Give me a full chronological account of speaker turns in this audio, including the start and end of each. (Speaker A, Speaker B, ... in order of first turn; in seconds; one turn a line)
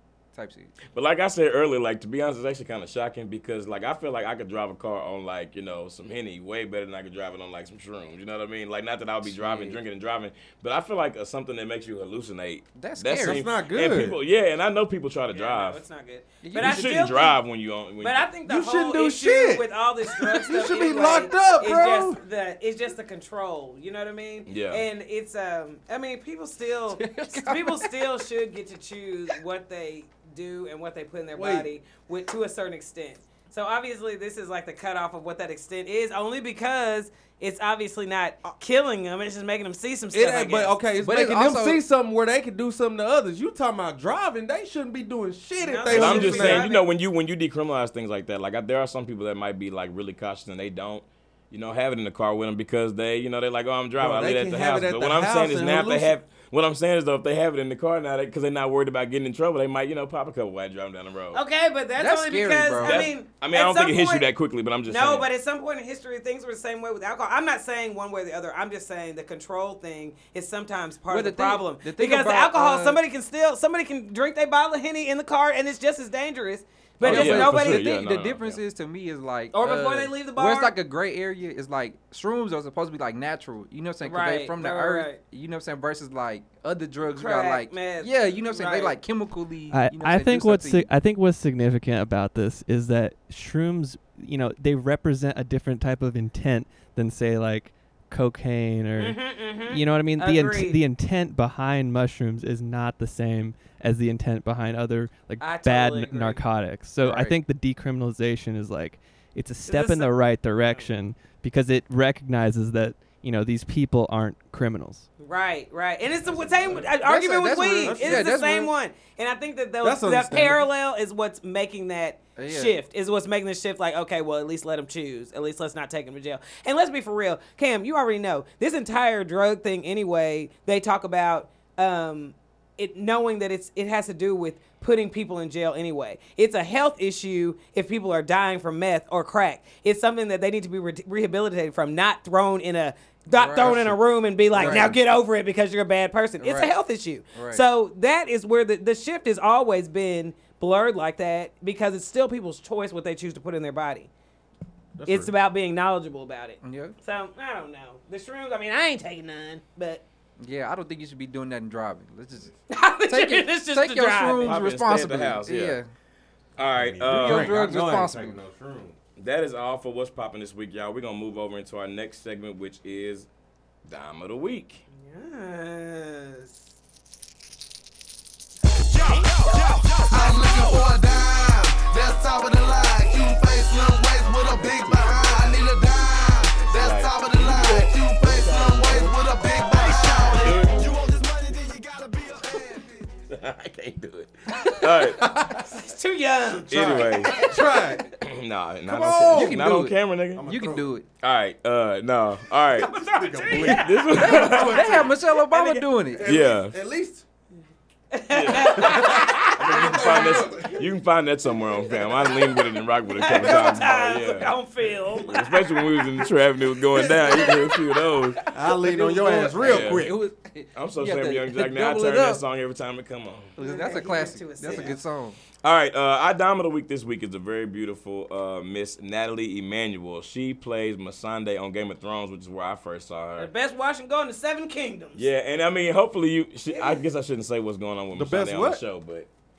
Speaker A: 0.3-0.7
Speaker B: 0.9-15.8
Speaker A: 9.2-9.8
Speaker A: 12.8-13.4
Speaker C: 13.2-14.2
Speaker D: 15.3-17.4
Speaker A: 16.4-17.1
Speaker B: 16.5-18.3
Speaker D: 18.0-40.7
Speaker C: 18.4-22.2
Speaker B: 24.5-24.8
Speaker A: 26.9-28.0
Speaker C: 31.3-31.7
Speaker C: 40.1-46.7
Speaker A: 41.0-41.8
Speaker D: 45.6-46.9
Speaker B: 45.9-61.4
Speaker C: 54.0-56.1
Speaker D: 61.3-64.3
Speaker A: 62.0-63.1
Speaker B: 62.8-65.3
Speaker D: 64.9-78.0
Speaker A: 71.1-73.0
Speaker A: 77.0-90.9
Speaker B: 77.0-78.6
Speaker D: 79.5-80.7
Speaker D: 84.0-85.2
Speaker D: 87.2-89.0
Speaker E: 89.7-115.1
Speaker D: 99.0-100.8
Speaker D: 105.4-106.4
Speaker A: 107.0-107.4
Speaker D: 109.7-110.9
Speaker D: 115.2-154.1
Speaker C: 116.3-116.8
Speaker A: 116.9-118.7
Speaker C: 117.8-118.4
Speaker C: 119.8-120.7
Speaker A: 122.3-122.8
Speaker A: 143.3-144.0
Speaker C: 143.6-143.9
Speaker C: 144.5-145.0
Speaker A: 144.5-144.9
Speaker A: 146.4-146.7
Speaker A: 147.3-147.6
Speaker C: 155.0-155.3
Speaker D: 155.1-160.0
Speaker A: 156.6-156.9
Speaker A: 160.4-162.5
Speaker D: 162.7-164.6
Speaker A: 163.1-165.9
Speaker B: 164.4-165.8
Speaker B: 166.6-167.5
Speaker C: 166.7-168.9
Speaker A: 167.0-168.4
Speaker B: 169.2-173.3
Speaker B: 173.8-174.8
Speaker D: 174.9-176.6
Speaker F: 178.9-192.8
Speaker D: 178.9-179.8
Speaker B: 184.2-185.6
Speaker B: 186.7-190.8
Speaker C: 192.5-193.1
Speaker B: 193.3-195.3
Speaker C: 195.0-195.7
Speaker D: 195.6-197.8
Speaker B: 196.7-197.5
Speaker C: 196.7-198.1
Speaker B: 198.2-200.5
Speaker C: 198.9-199.8
Speaker A: 199.3-201.1
Speaker C: 200.3-200.9
Speaker B: 201.2-205.0
Speaker D: 202.7-205.8
Speaker C: 203.1-205.1
Speaker A: 204.1-206.3
Speaker C: 206.1-207.2
Speaker B: 206.2-206.8
Speaker D: 208.1-210.8
Speaker B: 208.3-214.5
Speaker C: 208.6-210.9
Speaker D: 211.9-218.2
Speaker B: 215.1-218.4
Speaker C: 218.5-220.2
Speaker A: 218.7-222.4
Speaker B: 219.6-220.1
Speaker B: 220.7-223.5
Speaker D: 223.6-225.0
Speaker A: 223.6-225.4
Speaker B: 225.6-233.5
Speaker D: 233.4-235.2
Speaker B: 235.2-239.3
Speaker D: 236.7-237.0
Speaker C: 238.1-238.8